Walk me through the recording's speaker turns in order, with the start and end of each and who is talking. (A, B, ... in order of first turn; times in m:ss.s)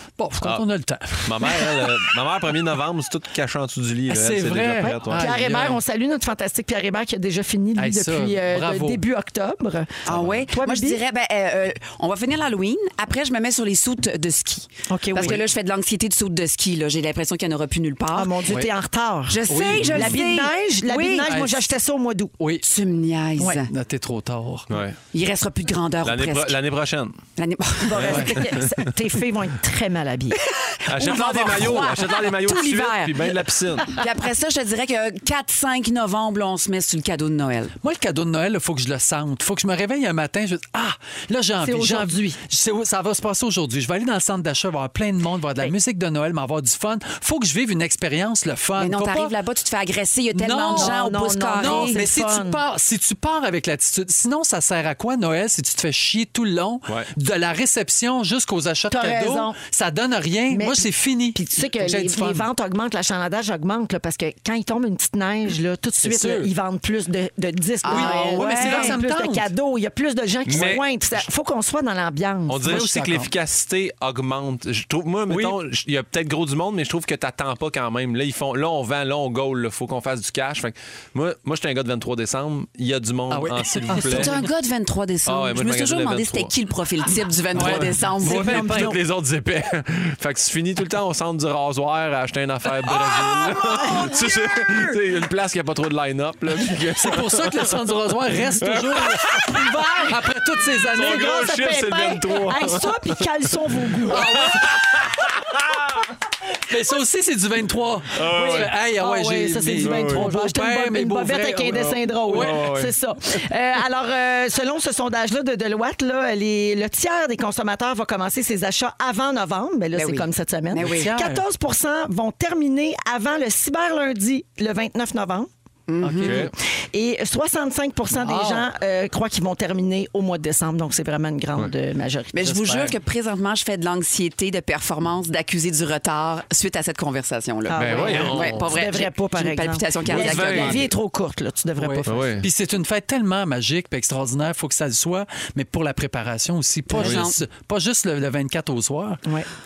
0:00.2-0:02.1 A
0:01.2-0:05.3 B
0:04.1-0:05.8 A
0:04.8-0:11.0 C
0:07.8-0:09.0 A
0:10.1-0:18.4 D
0:10.1-0:10.4 B
0:14.9-0:15.4 C
0:18.1-0:22.3 C
0:18.5-0:18.7 A
0:19.3-0:21.3 D
0:19.5-0:20.2 A
0:21.2-0:21.6 A
0:22.4-0:22.7 A
0:22.6-0:23.7 D
0:23.7-0:24.8 A
0:24.7-0:25.0 B
0:25.1-0:26.6 D
0:26.0-0:27.2 B
0:27.4-0:28.4 D
0:27.8-0:30.4 C
0:28.1-0:28.4 A
0:28.1-0:28.8 B
0:30.4-0:37.8 D
0:30.9-0:34.0 B
0:37.8-0:49.3 A
0:41.6-0:42.4 C
0:48.8-0:52.0 D
0:50.4-1:02.5 A
0:50.7-0:52.6 C
0:58.9-0:59.6 C
1:00.5-1:12.9 C
1:06.0-1:06.5 A
1:07.8-1:09.0 D
1:07.8-1:09.5 A
1:10.5-1:11.2 B
1:12.5-1:24.4 B
1:12.6-1:13.3 A
1:15.3-1:15.6 A
1:23.3-1:24.4 A
1:24.0-1:28.6 D
1:25.3-1:26.5 B
1:27.6-1:29.0 A
1:27.6-1:37.7 B
1:28.5-1:29.0 C
1:32.9-1:34.9 D
1:37.0-1:41.3 A
1:38.6-1:39.6 B
1:39.5-1:40.2 C
1:40.9-1:43.0 B
1:40.9-1:44.7 C
1:44.1-1:44.8 A
1:44.1-1:46.0 B
1:46.7-1:52.8 A
1:48.2-1:48.7 B
1:48.3-2:05.5 C
1:49.8-1:50.3 B
1:52.3-1:52.9 B
2:00.0-2:01.1 D
2:00.8-2:01.4 A
2:05.9-2:06.5 D
2:06.0-2:06.5 A
2:06.2-2:06.5 B
2:06.9-2:12.3 C
2:08.1-2:08.7 A
2:12.3-2:20.9 D
2:12.4-2:13.0 A
2:17.7-2:22.3 C
2:17.8-2:18.6 B
2:18.1-2:18.4 A
2:20.0-2:20.9 B
2:21.8-2:29.2 A
2:22.1-2:22.5 B
2:26.9-2:27.4 D
2:27.0-2:27.2 B